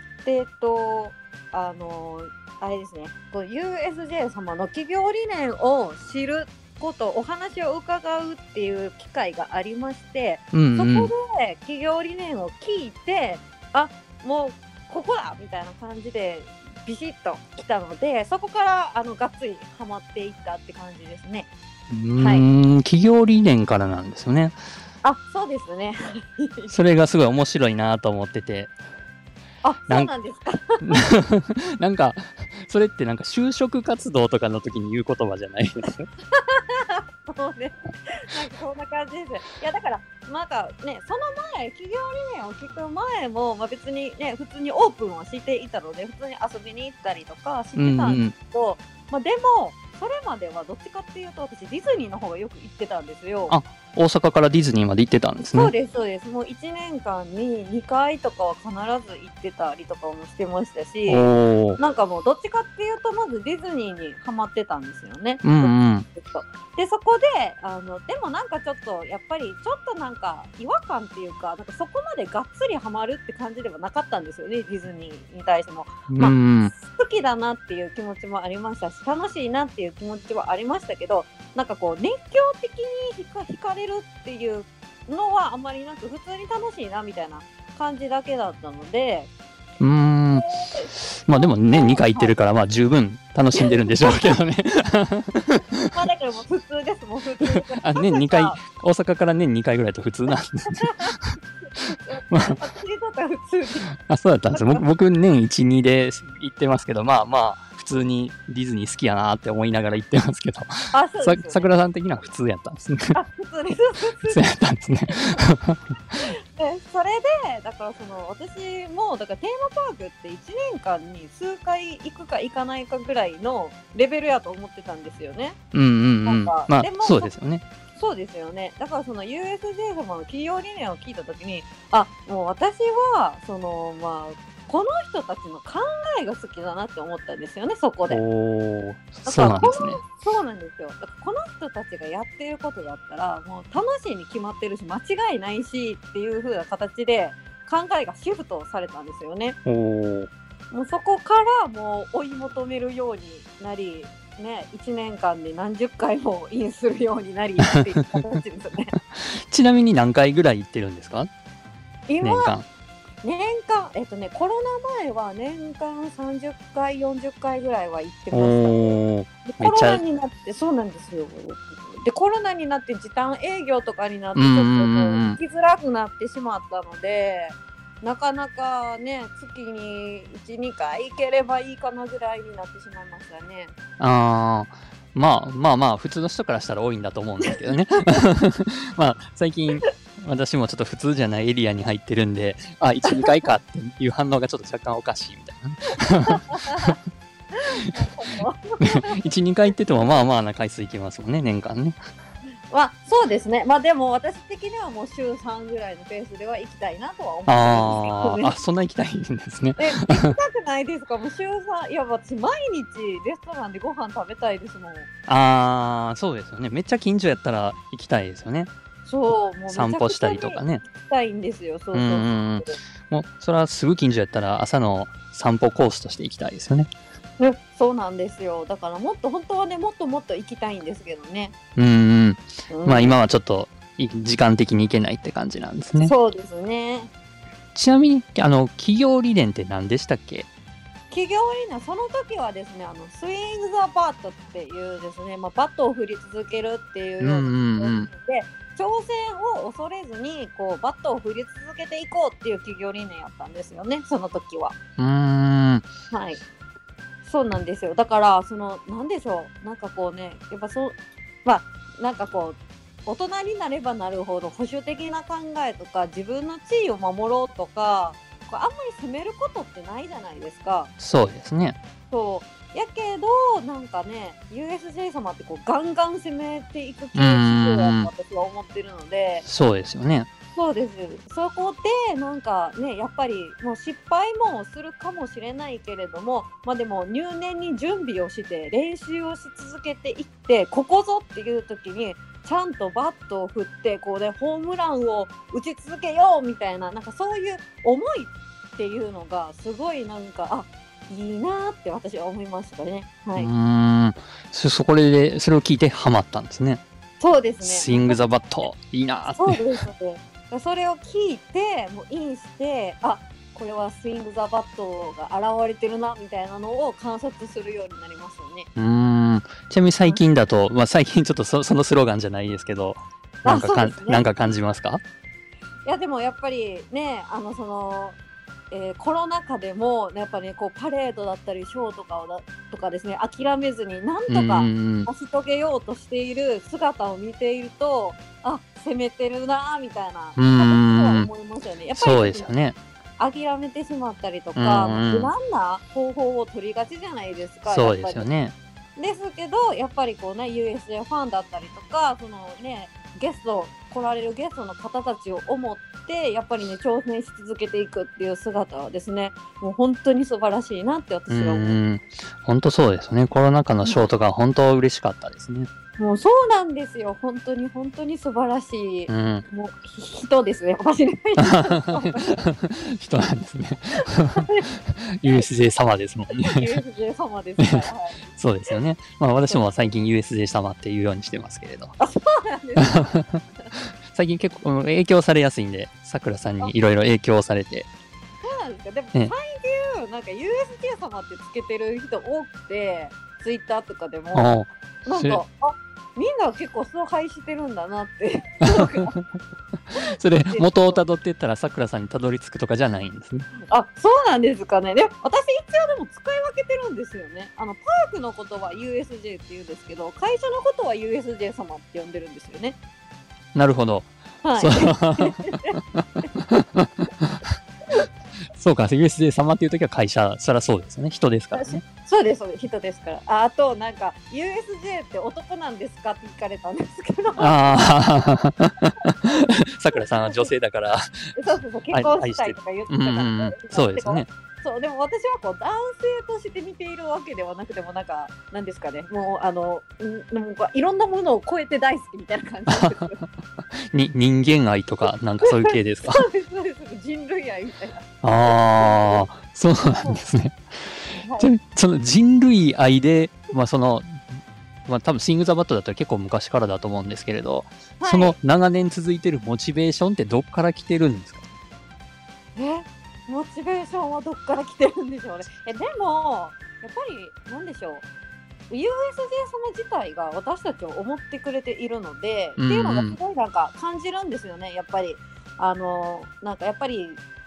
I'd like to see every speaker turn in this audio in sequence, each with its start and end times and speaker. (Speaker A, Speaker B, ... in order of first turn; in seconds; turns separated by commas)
Speaker A: 0.2-21.5, Speaker B: 10.5-11.1, Speaker B: 21.9-24.6, Speaker A: 22.2-22.4, Speaker A: 25.0-26.7, Speaker B: 26.7-28.7, Speaker A: 29.6-31.0, Speaker B: 30.8-36.1, Speaker A: 36.3-53.6, Speaker B: 47.8-48.3, Speaker B: 53.5-55.7, Speaker A: 55.4-89.3, Speaker B: 61.1-61.8, Speaker B: 65.4-66.1, Speaker B: 76.1-76.7, Speaker B: 89.8-95.8, Speaker A: 90.4-92.3, Speaker A: 93.6-94.3, Speaker A: 95.7-98.6, Speaker B: 97.4-101.4, Speaker A: 101.9-103.9, Speaker B: 102.3-102.6, Speaker B: 104.0-113.2, Speaker A: 104.5-104.8, Speaker A: 110.9-111.7, Speaker A: 113.1-114.4, Speaker B: 114.3-116.0, Speaker A: 116.2-125.5, Speaker B: 125.7-127.6, Speaker A: 126.2-127.3, Speaker A: 127.9-138.2, Speaker B: 138.1-140.0, Speaker A: 139.2-149.6, Speaker B: 149.7-150.3, Speaker A: 150.7-158.9, Speaker B: 159.5-161.3, Speaker A: 162.1-162.5, Speaker B: 162.2-162.7, Speaker A: 163.2-183.7, Speaker B: 168.3-170.0, Speaker B: 174.3-175.4, Speaker B: 184.0-197.0, Speaker A: 196.3-196.9, Speaker A: 197.9-199.1, Speaker B: 198.8-202.0, Speaker A: 202.7-208.5, Speaker B: 207.5-210.3, Speaker A: 209.8-215.1, Speaker B: 215.3-218.7, Speaker A: 219.1-222.7, Speaker B: 219.7-220.8, Speaker B: 221.9-226.9, Speaker A: 227.4-231.5, Speaker B: 231.8-236.1, Speaker A: 232.7-233.2, Speaker A: 236.0-237.1, Speaker B: 237.7-240.5, Speaker A: 241.1-254.8, Speaker B: 247.2-248.1, Speaker B: 255.0-255.9, Speaker A: 256.1-256.4, Speaker A: 257.2-270.9, Speaker B: 271.0-271.8, Speaker A: 272.1-279.4, Speaker B: 277.1-278.1, Speaker B: 279.4-280.3, Speaker A: 280.6-303.5, Speaker B: 303.4-306.8, Speaker A: 307.2-308.2, Speaker B: 307.6-309.7, Speaker A: 309.3-318.7, Speaker B: 318.8-325.0, Speaker A: 323.4-324.3, Speaker A: 325.9-328.2, Speaker A: 328.7-342.5, Speaker B: 334.3-335.1, Speaker B: 340.4-341.3, Speaker B: 341.9-342.8, Speaker A: 343.2-348.3, Speaker B: 344.5-345.3, Speaker B: 347.7-348.5, Speaker A: 349.0-361.8, Speaker B: 361.3-365.7, Speaker A: 366.0-372.3, Speaker B: 369.1-369.4, Speaker B: 371.4-376.7, Speaker A: 376.4-378.2, Speaker B: 377.6-381.9, Speaker A: 379.5-379.9, Speaker A: 382.0-383.1, Speaker B: 382.8-387.9, Speaker A: 388.4-394.5, Speaker B: 394.3-395.4, Speaker A: 395.1-399.1, Speaker B: 398.6-399.2, Speaker B: 400.2-403.5, Speaker A: 400.5-401.0, Speaker A: 403.7-412.8, Speaker B: 413.5-417.4, Speaker A: 414.4-415.8, Speaker B: 418.6-421.8, Speaker A: 421.5-427.7, Speaker B: 427.4-431.0, Speaker A: 430.1-430.5, Speaker A: 431.4-443.2, Speaker B: 431.9-434.3, Speaker B: 442.7-443.1, Speaker B: 443.9-446.2, Speaker A: 445.4-449.2, Speaker B: 448.2-454.2, Speaker A: 451.2-451.5, Speaker B: 454.9-461.4, Speaker A: 458.0-458.4, Speaker A: 462.6-468.1, Speaker A: 468.7-477.2, Speaker B: 472.6-473.2